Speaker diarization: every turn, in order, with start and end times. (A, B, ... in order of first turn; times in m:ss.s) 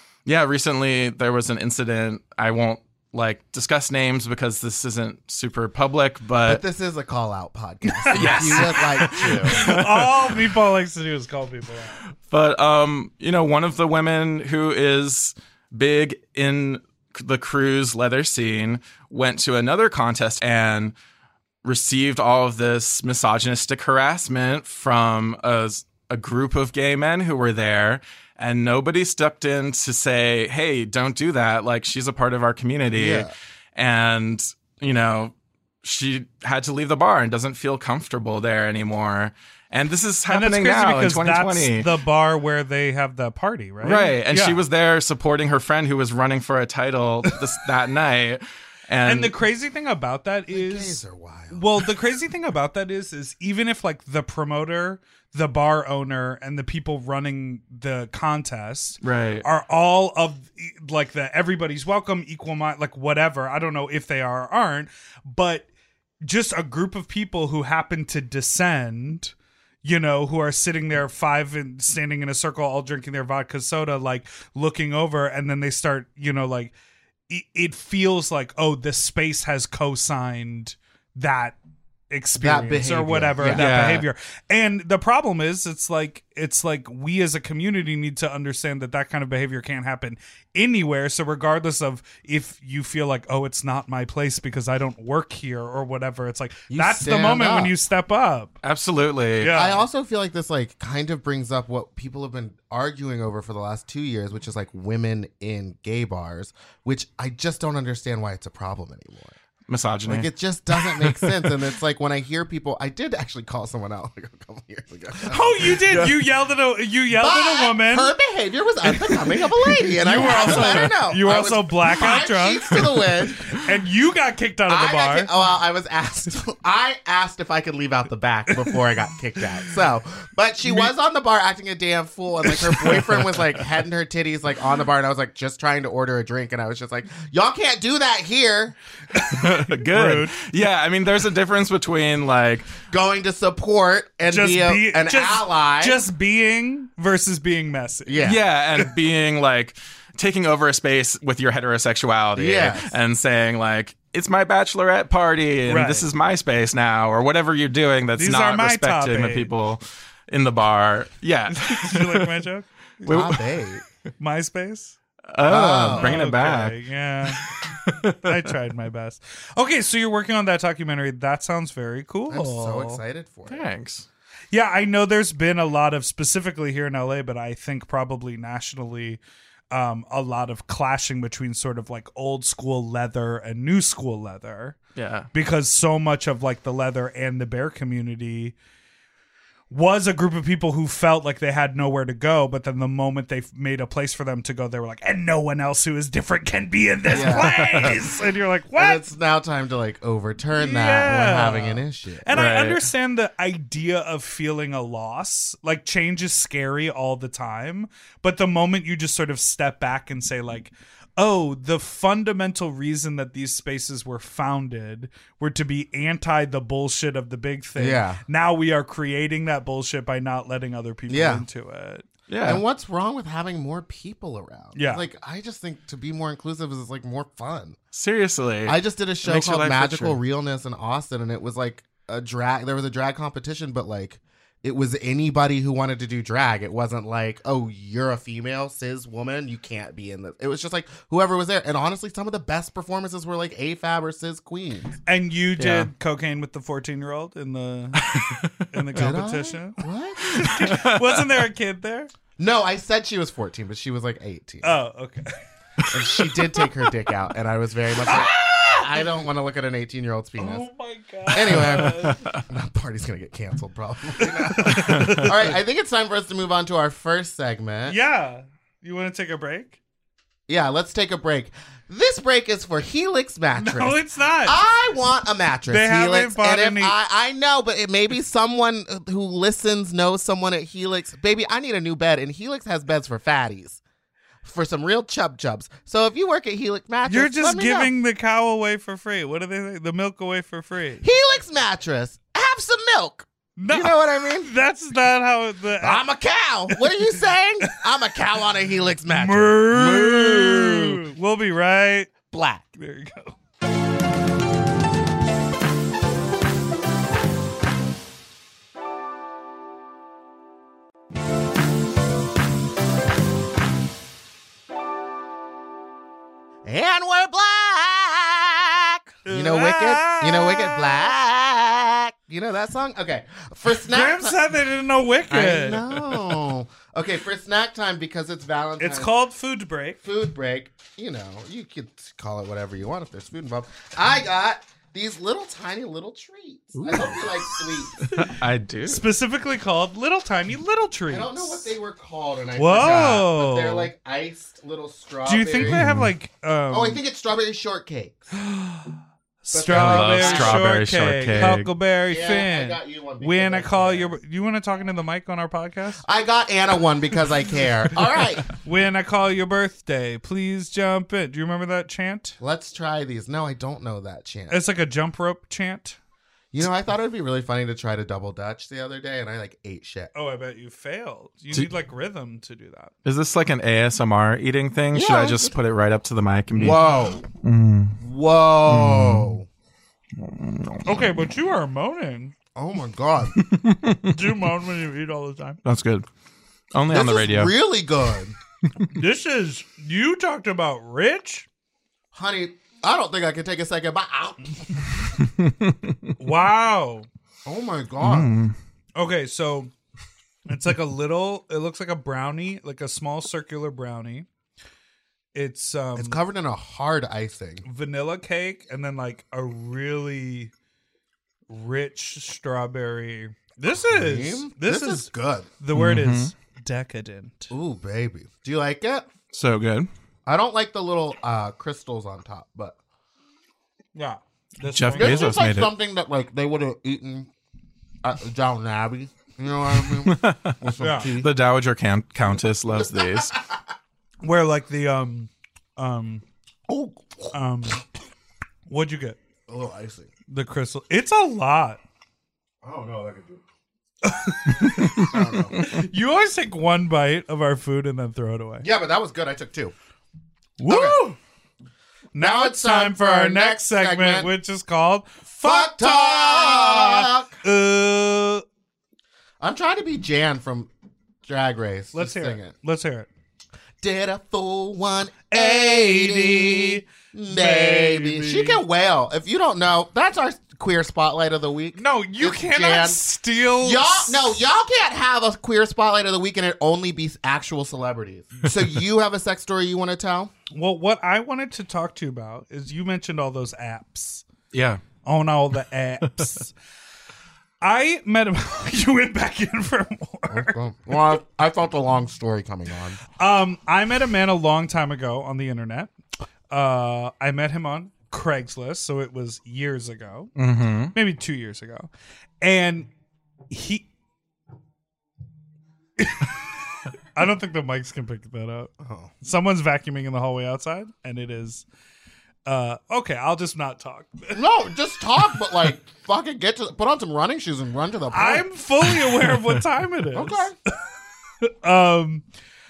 0:00.3-0:06.6 A
0:06.4-0:09.6 B
0:08.1-0:12.0 C
0:08.1-0:10.3 A
0:12.2-0:21.0 A
0:21.6-0:41.9 A
0:32.9-0:33.3 B
0:40.3-0:44.6 C
0:43.8-0:49.4 A
0:49.1-1:05.7 C
0:50.5-0:51.6 B
0:59.0-0:59.4 A
1:06.2-1:16.7 C
1:17.3-1:21.6 C
1:22.1-1:38.5 C
1:22.4-1:23.7 B
1:23.4-1:24.1 A
1:36.7-1:37.7 B
1:38.6-1:39.6 A
1:39.4-1:39.8 C
1:39.5-1:49.3 B
1:49.7-1:51.6 A
1:50.1-1:55.8 B
1:55.2-1:58.1 C
1:57.1-2:03.6 B
1:59.9-2:02.8 C
2:00.2-2:00.9 A
2:03.5-2:05.3 C
2:04.7-2:18.8 B
2:19.1-2:20.4 C
2:19.3-2:22.8 A
2:22.8-2:26.0 B
2:24.3-2:28.3 C
2:28.1-2:28.4 B
2:28.2-2:42.3 A
2:32.4-2:33.0 B
2:35.7-2:36.1 C
2:38.2-2:39.5 C
2:41.5-2:43.3 C
2:43.1-2:43.4 A
2:43.1-2:43.8 B
2:44.2-2:45.0 C
2:45.3-2:48.3 A
2:45.5-2:46.2 B
2:46.0-2:47.5 C
2:48.1-2:53.0 C
2:52.3-2:53.7 B
2:53.5-2:54.1 A
2:54.5-2:59.2 C
2:59.7-3:04.8 C
3:05.0-3:05.3 A
3:05.3-3:08.6 C
3:09.7-3:19.0 C
3:17.1-3:17.9 B
3:17.1-3:18.0 A
3:18.8-3:22.3 B
3:20.6-3:42.1 C
3:22.3-3:22.9 A
3:37.8-3:38.2 B
3:41.1-3:41.4 B
3:42.3-3:42.6 A
3:42.4-3:47.8 B
3:44.8-3:45.1 C
3:47.9-3:50.2 A
3:48.6-4:05.0 B
4:05.1-4:08.0 C
4:05.6-4:05.9 A
4:08.0-4:08.7 A
4:08.7-4:12.1 C
4:08.9-4:10.5 B
4:10.3-4:11.2 A
4:12.4-4:14.8 B
4:14.6-4:15.3 C
4:15.9-4:20.7 B
4:18.1-4:19.0 C
4:20.4-4:22.3 C
4:21.3-4:28.0 B
4:21.6-4:22.4 A
4:24.3-4:25.5 C
4:24.7-4:25.3 A
4:27.9-4:29.8 C
4:30.5-4:43.8 B
4:33.6-4:34.6 C
4:35.7-4:37.0 C
4:44.4-4:47.9 B
4:47.1-4:51.1 C
4:51.0-4:54.5 B
4:53.6-4:56.1 C
4:55.8-5:00.6 B
4:56.7-4:57.1 C
4:59.1-5:02.1 C
4:59.9-5:00.8 A
5:02.3-5:02.6 B
5:02.7-5:03.4 C
5:16.6-5:24.5 B
5:19.3-5:21.1 C
5:23.9-5:25.9 C
5:25.3-5:29.1 B
5:28.8-5:30.0 C
5:30.0-5:38.1 B
5:36.7-5:39.1 A
5:38.9-5:41.7 C
5:41.1-5:45.8 B
5:42.6-5:43.9 C
5:45.2-5:47.0 C
5:45.6-5:46.1 A
5:46.7-5:48.3 B
5:48.4-5:56.0 C
5:49.5-5:50.6 B
5:49.7-5:51.7 A
5:52.1-5:54.1 B
5:56.0-5:58.5 B
5:58.5-6:02.4 C
6:02.4-6:04.6 B
6:04.5-6:06.0 C
6:06.5-6:10.1 B
6:10.1-6:12.9 C
6:13.0-6:16.8 A
6:14.9-6:15.6 B
6:16.6-6:17.3 B
6:17.4-6:18.0 A
6:18.0-6:19.4 B
6:18.7-6:19.4 A
6:20.2-6:20.9 A
6:20.9-6:22.3 C
6:22.6-6:23.4 B
6:23.4-6:24.3 A
6:24.1-6:25.6 C
6:25.6-6:26.1 A
6:26.7-6:27.5 A
6:26.9-6:28.4 B
6:28.9-6:31.5 C
6:32.1-6:34.9 B
6:35.2-6:36.1 A
6:36.2-6:37.1 C
6:37.4-6:38.3 B
6:38.0-6:38.6 A
6:39.0-6:39.7 C
6:40.5-6:44.3 C
6:45.3-6:46.2 C
6:46.0-6:47.6 B
6:47.6-6:50.5 C
6:51.5-6:57.5 C
6:53.9-6:55.5 B
6:55.7-6:56.3 A
6:57.5-6:59.1 B
6:59.3-6:59.9 A
7:00.3-7:02.8 B
7:04.0-7:05.3 C
7:04.7-7:05.7 A
7:05.0-7:07.3 B
7:08.0-7:11.3 B
7:10.0-7:10.6 A
7:10.8-7:11.1 C
7:11.1-7:13.3 A
7:12.7-7:13.6 B
7:14.2-7:16.2 C
7:16.7-7:17.3 B
7:17.3-7:17.9 C
7:18.7-7:19.2 C
7:19.5-7:20.1 B
7:20.3-7:21.8 C
7:22.6-7:23.4 B
7:24.0-7:28.7 C
7:25.0-7:25.7 B
7:28.6-7:29.7 B
7:30.6-7:31.2 C
7:30.7-7:31.1 B
7:32.1-7:38.4 C
7:32.2-7:34.3 B
7:35.4-7:37.4 B
7:39.4-7:40.7 B
7:41.2-7:42.5 B
7:41.9-7:43.1 C
7:43.8-7:53.0 B
7:45.3-7:48.6 C
7:51.8-7:54.4 C
7:53.6-8:00.3 B
8:00.5-8:04.2 C
8:04.5-8:04.8 A
8:05.0-8:06.5 C
8:07.6-8:10.6 C
8:10.3-8:13.0 B
8:13.2-8:15.9 C
8:16.5-8:20.3 C
8:20.4-8:20.9 A
8:20.9-8:21.9 C
8:22.4-8:22.9 C
8:23.5-8:23.9 C
8:26.0-8:26.4 C
8:27.2-8:31.7 C
8:28.8-8:29.1 B
8:32.4-8:34.4 C
8:34.3-8:38.5 B
8:38.1-8:40.5 C
8:40.1-8:40.6 B
8:41.4-8:42.2 C